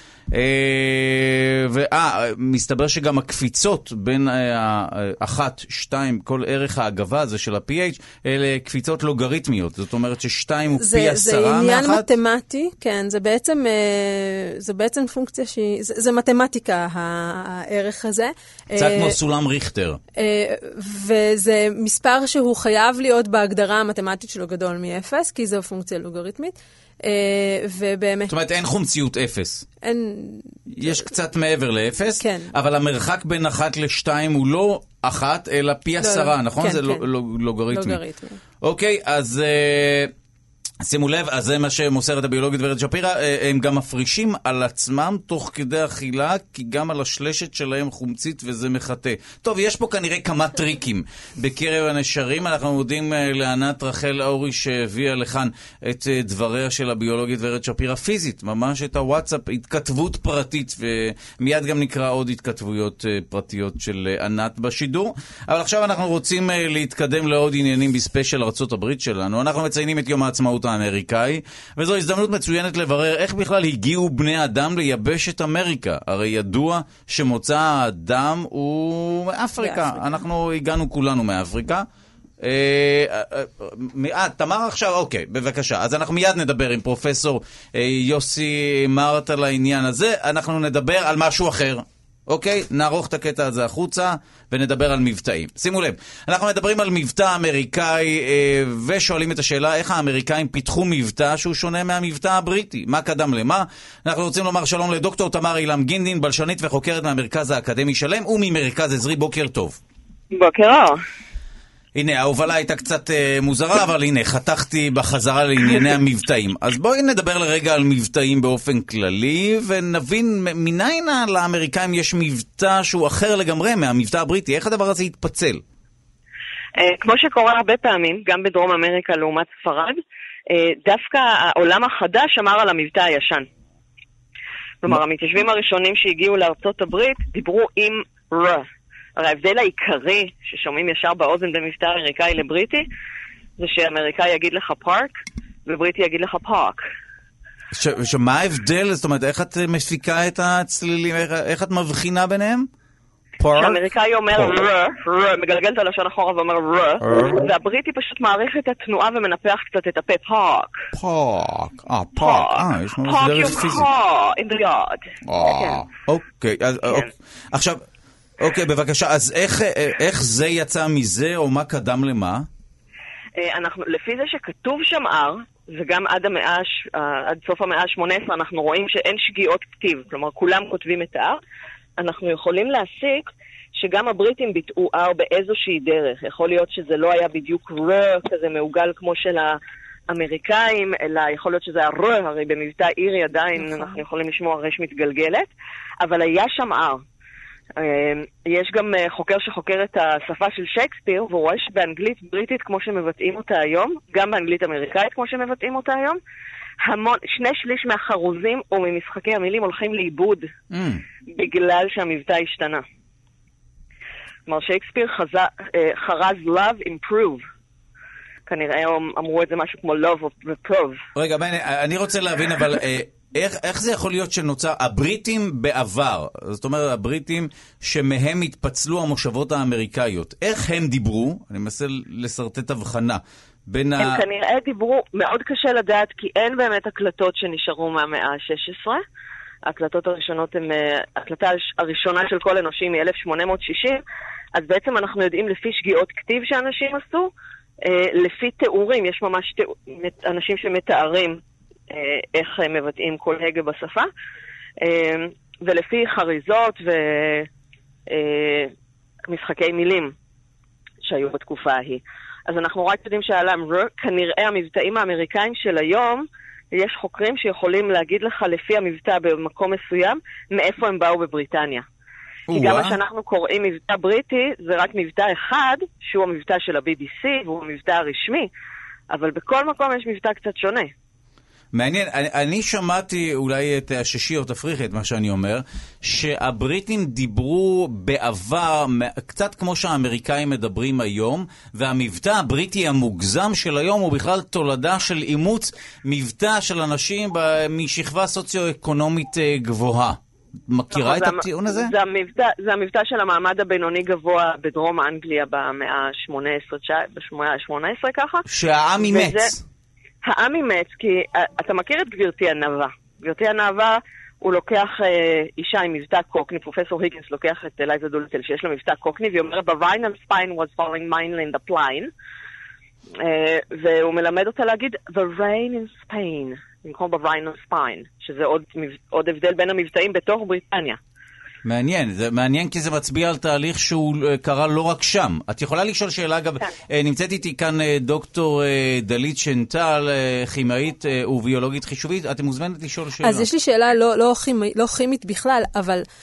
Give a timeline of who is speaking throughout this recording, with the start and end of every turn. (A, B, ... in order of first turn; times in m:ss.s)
0:00.3-0:12.1 A
0:10.8-0:19.2 B
0:18.8-0:20.0 A
0:20.2-0:28.3 B
0:28.3-0:29.7 A
0:29.8-0:31.1 B
0:30.7-0:38.0 A
0:32.2-0:32.5 B
0:36.0-0:37.0 B
0:37.7-0:38.4 B
0:38.6-0:40.1 A
0:40.8-1:21.8 A
1:19.6-1:20.2 B
1:22.4-1:49.8 A
1:50.3-1:51.0 C
1:52.0-2:05.6 A
2:06.8-2:13.5 C
2:14.8-2:18.7 C
2:19.2-2:22.9 C
2:23.6-2:25.1 C
2:25.7-2:26.8 C
2:27.7-2:32.7 A
2:33.4-2:33.8 A
2:33.5-2:40.8 C
2:37.0-2:37.5 A
2:41.0-2:43.9 A
2:42.2-2:45.8 C
2:45.3-2:47.8 A
2:48.4-2:52.5 A
2:53.4-3:01.4 C
3:02.0-3:17.0 C
3:13.6-3:14.0 B
3:17.8-3:26.2 C
3:26.8-3:30.5 C
3:30.7-3:31.0 A
3:31.3-3:32.8 C
3:34.5-3:37.4 C
3:38.5-3:41.0 C
3:41.2-3:54.2 A
3:54.0-3:59.0 C
3:59.7-4:04.0 C
4:04.6-4:07.3 C
4:07.8-4:14.1 C
4:14.8-4:17.5 C
4:18.1-4:18.7 C
4:19.3-4:20.1 C
4:21.0-4:31.9 C
4:32.5-4:33.0 A
4:32.5-4:38.5 C
4:39.1-4:40.9 C
4:41.7-5:01.9 A
5:00.9-5:08.4 C
5:08.5-5:09.6 A
5:09.0-5:09.5 C
5:10.2-5:22.1 C
5:23.2-5:31.0 C
5:31.6-5:43.5 A
5:43.2-5:46.0 B